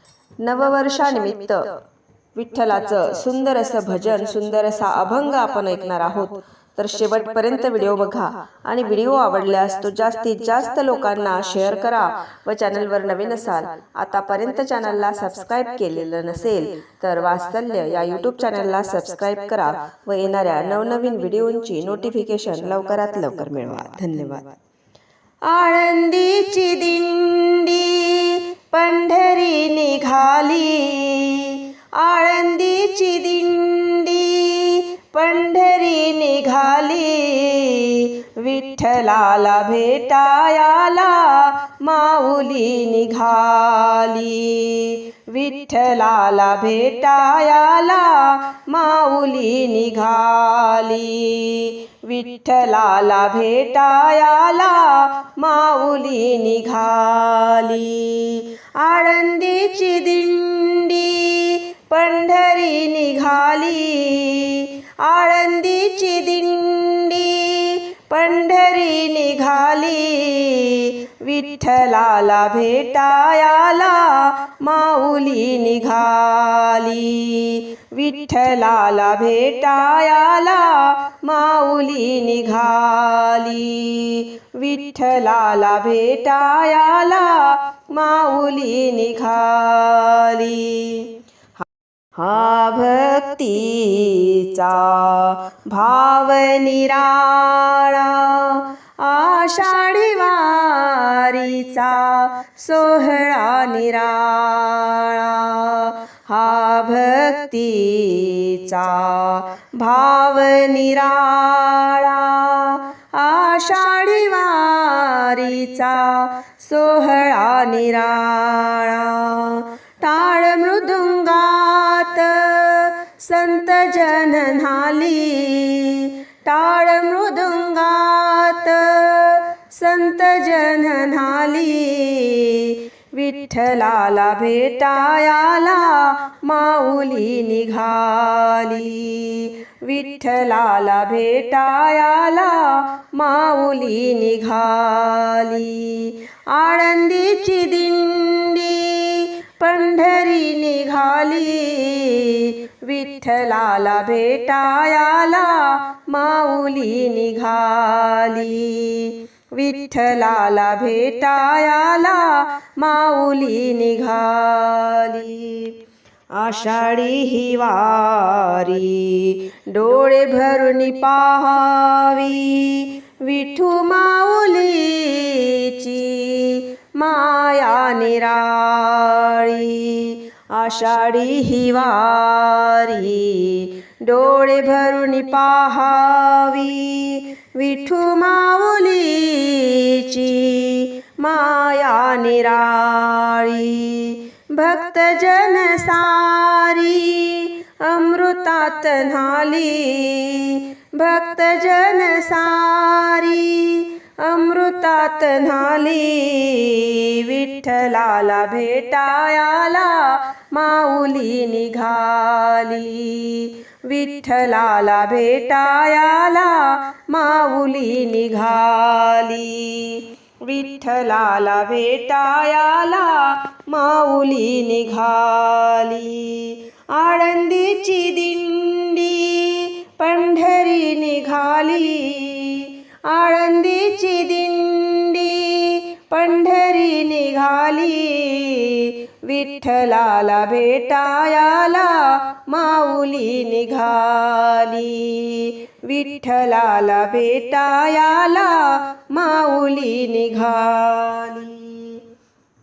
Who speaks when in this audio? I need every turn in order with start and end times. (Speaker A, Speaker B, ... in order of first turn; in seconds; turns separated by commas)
Speaker A: 0.4-1.8, Speaker A: 2.3-24.6, Speaker A: 25.5-91.2, Speaker A: 92.2-165.8, Speaker A: 166.3-252.0